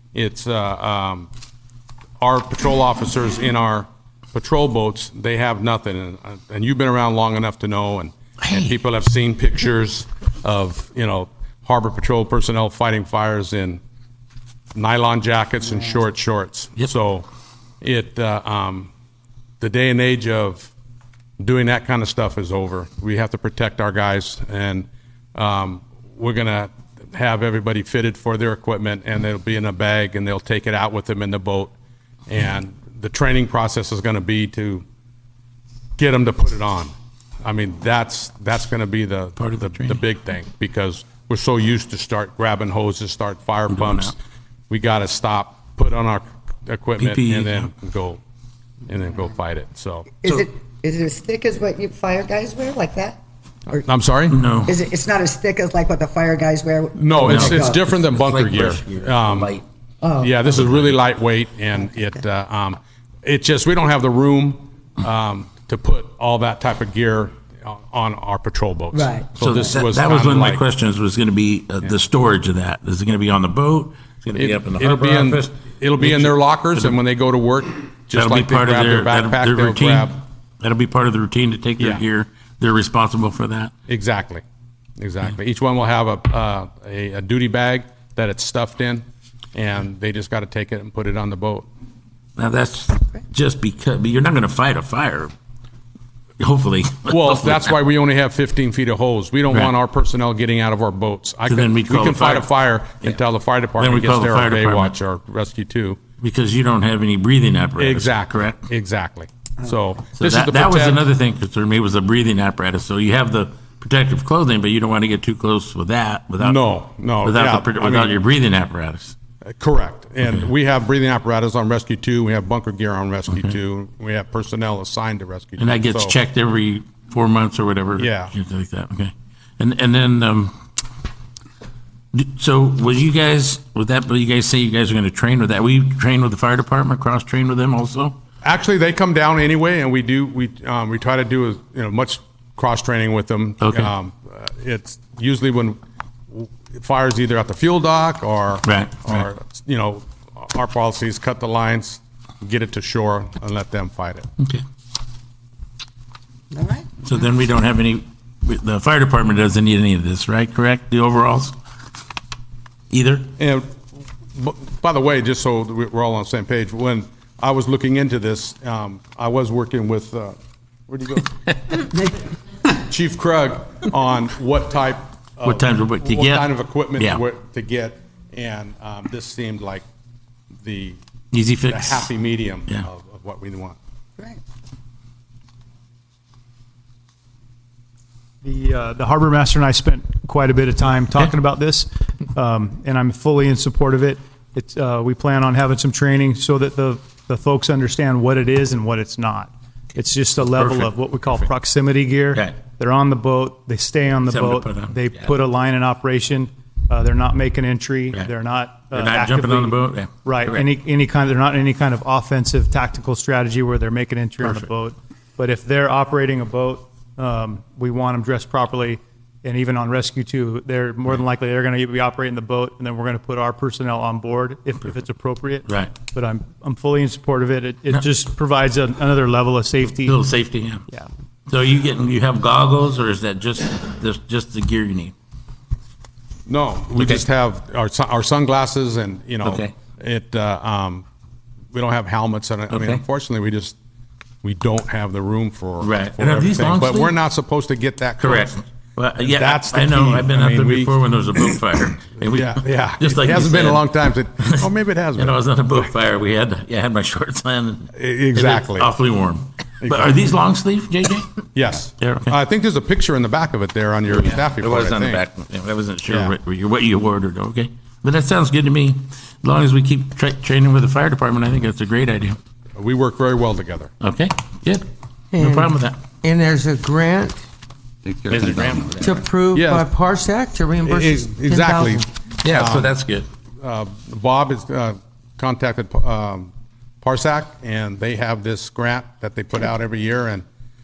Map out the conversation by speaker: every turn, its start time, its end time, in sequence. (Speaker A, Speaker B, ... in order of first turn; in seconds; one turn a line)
Speaker A: 0.1-1.3
Speaker A: 2.2-13.8
Speaker B: 8.4-8.7
Speaker A: 14.7-17.3
Speaker A: 17.8-18.9
Speaker A: 19.6-20.7
Speaker A: 21.4-31.7
Speaker A: 32.3-34.8
Speaker A: 36.0-44.2
Speaker B: 39.4-40.0
Speaker B: 43.7-44.1
Speaker A: 44.7-48.2
Speaker B: 47.0-47.7
Speaker A: 48.9-50.3
Speaker C: 50.2-53.9
Speaker A: 53.7-54.5
Speaker B: 54.3-54.8
Speaker C: 54.6-57.9
Speaker A: 56.9-59.5
Speaker B: 57.2-59.6
Speaker C: 60.0-60.5
Speaker A: 60.2-70.6
Speaker B: 60.5-60.9
Speaker C: 68.9-69.6
Speaker B: 69.4-77.0
Speaker A: 74.3-80.2
Speaker B: 78.1-83.7
Speaker A: 81.8-82.0
Speaker A: 83.9-84.4
Speaker A: 85.0-91.7
Speaker B: 92.4-95.3
Speaker B: 96.4-97.7
Speaker A: 97.1-106.0
Speaker B: 101.5-102.5
Speaker B: 103.8-104.9
Speaker B: 106.2-108.7
Speaker A: 107.8-111.1
Speaker B: 110.2-116.6
Speaker A: 116.4-118.2
Speaker B: 117.2-119.1
Speaker A: 119.4-126.2
Speaker B: 120.2-120.5
Speaker B: 123.3-123.5
Speaker B: 125.6-130.5
Speaker A: 128.0-128.3
Speaker B: 132.1-138.2
Speaker A: 138.4-145.8
Speaker B: 143.6-143.9
Speaker A: 146.3-154.3
Speaker B: 148.6-149.2
Speaker C: 156.5-156.8
Speaker B: 157.0-161.5
Speaker B: 162.9-163.3
Speaker A: 163.4-163.7
Speaker A: 164.3-170.3
Speaker A: 170.9-171.3
Speaker A: 172.8-179.8
Speaker B: 175.4-177.2
Speaker A: 180.6-181.0
Speaker B: 181.3-182.1
Speaker A: 181.7-183.8
Speaker D: 188.4-230.2
Speaker B: 200.4-200.9
Speaker B: 204.2-205.3
Speaker B: 208.9-210.7
Speaker B: 225.7-225.9
Speaker B: 229.9-230.8
Speaker B: 231.5-235.1
Speaker A: 236.5-241.0
Speaker B: 237.0-237.2
Speaker B: 239.4-239.7
Speaker A: 241.7-243.8
Speaker B: 242.7-243.0
Speaker A: 244.4-248.6
Speaker B: 245.8-247.1
Speaker B: 248.2-261.3
Speaker A: 249.2-251.0
Speaker A: 251.5-255.4
Speaker A: 257.9-258.9
Speaker A: 259.8-260.3
Speaker A: 261.5-265.2
Speaker B: 262.0-262.4
Speaker B: 264.1-272.4
Speaker A: 266.1-266.4
Speaker A: 272.8-273.9
Speaker B: 274.0-276.0
Speaker E: 275.3-277.4
Speaker E: 278.0-282.0
Speaker B: 278.3-279.2
Speaker A: 279.5-279.9
Speaker A: 280.8-283.0
Speaker B: 282.4-283.3
Speaker A: 283.6-286.5
Speaker A: 287.0-290.4